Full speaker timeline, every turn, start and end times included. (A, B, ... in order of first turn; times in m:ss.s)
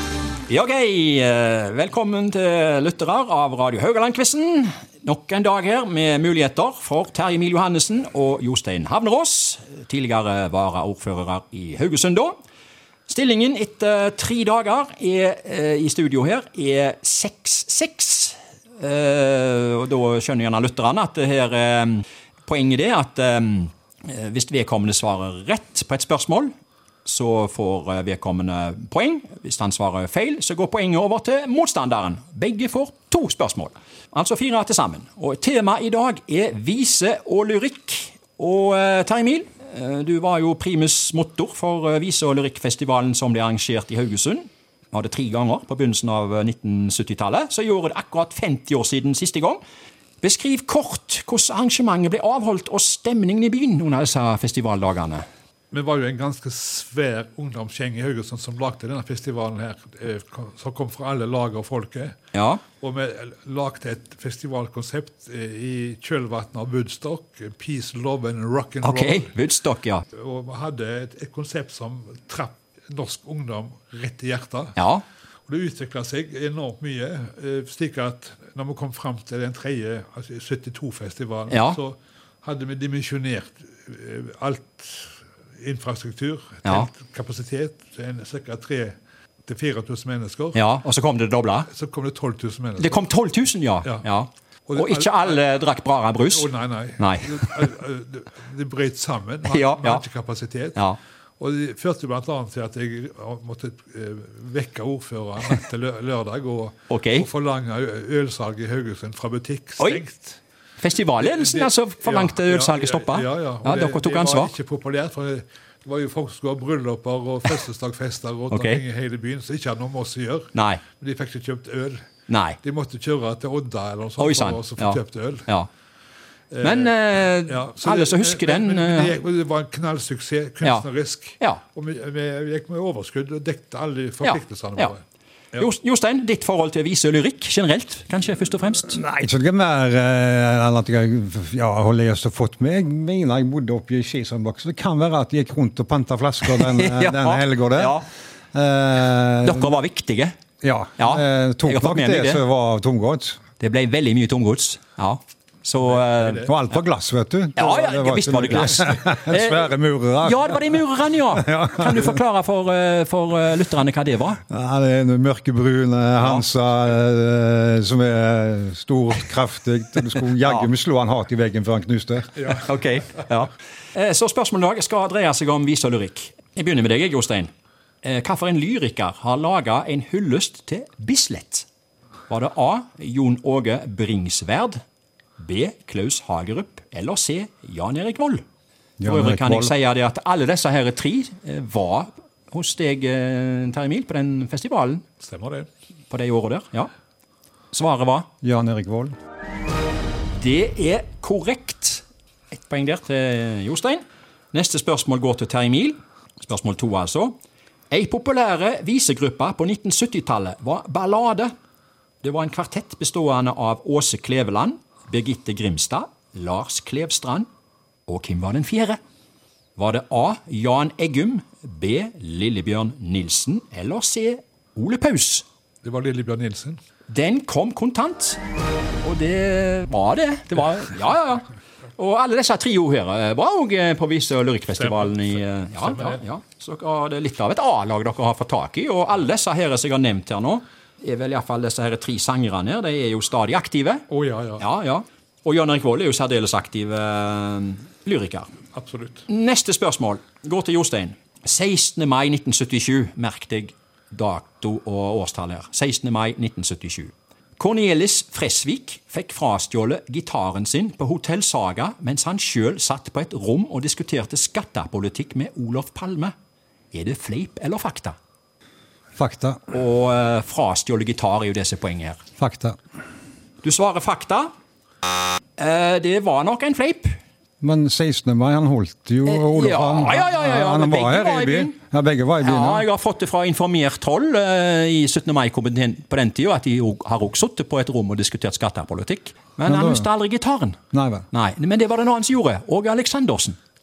0:00.5-0:12.3 A
0:13.1-0:26.5 A
0:27.0-0:49.6 A
0:50.2-0:55.2 A
0:55.7-1:02.2 B
1:02.3-1:02.6 A
1:02.8-1:09.3 B
1:08.8-1:10.0 A
1:10.1-1:14.7 B
1:14.8-1:15.0 A
1:15.5-1:30.6 B
1:21.5-1:21.8 A
1:30.5-1:31.7 A
1:31.7-1:33.1 B
1:32.8-1:37.5 A
1:34.7-1:35.4 B
1:36.2-1:40.8 B
1:39.4-1:40.0 A
1:41.4-1:50.4 B
1:46.9-1:47.3 A
1:50.8-1:54.5 A
1:51.2-2:02.0 B
1:58.5-1:58.8 A
2:00.5-2:00.8 A
2:02.3-2:02.6 A
2:02.6-2:05.5 B
2:04.2-2:05.7 A
2:06.5-2:06.9 B
2:06.6-2:09.2 A
2:07.5-2:15.0 B
2:14.2-2:14.9 A
2:15.6-2:19.0 A
2:18.8-2:29.7 C
2:26.4-2:28.0 A
2:29.4-2:30.4 A
2:30.6-2:33.4 C
2:31.0-2:32.4 A
2:33.6-2:36.5 A
2:35.8-2:36.5 B
2:36.4-2:42.2 C
2:37.6-2:44.4 A
2:44.5-2:52.6 C
2:52.5-2:57.5 A
2:58.0-3:01.7 A
3:02.3-3:04.8 A
3:05.4-3:08.4 A
3:09.0-3:09.7 C
3:09.0-3:15.0 A
3:15.2-3:15.7 B
3:16.1-3:16.9 A
3:17.7-3:18.3 A
3:18.4-3:19.1 C
3:20.4-3:27.3 A
3:27.9-3:31.5 A
3:32.2-3:37.5 A
3:38.1-3:39.0 A
3:39.8-3:45.4 A
3:45.8-3:46.8 B
3:47.1-3:48.4 A
3:49.0-4:04.0 A
3:54.8-3:56.2 B
4:04.1-4:04.6 B
4:04.6-4:08.5 A
4:08.7-4:09.2 B
4:09.3-4:26.3 A
4:26.9-4:28.2 A
4:29.2-4:29.6 C
4:29.7-4:32.2 A
4:32.4-4:32.8 C
4:33.6-4:34.5 A
4:35.6-4:37.2 A
4:37.6-4:42.8 C
4:39.2-4:41.7 A
4:42.4-4:50.8 A
4:49.6-4:50.1 C
4:50.9-4:51.2 C
4:51.3-4:53.6 A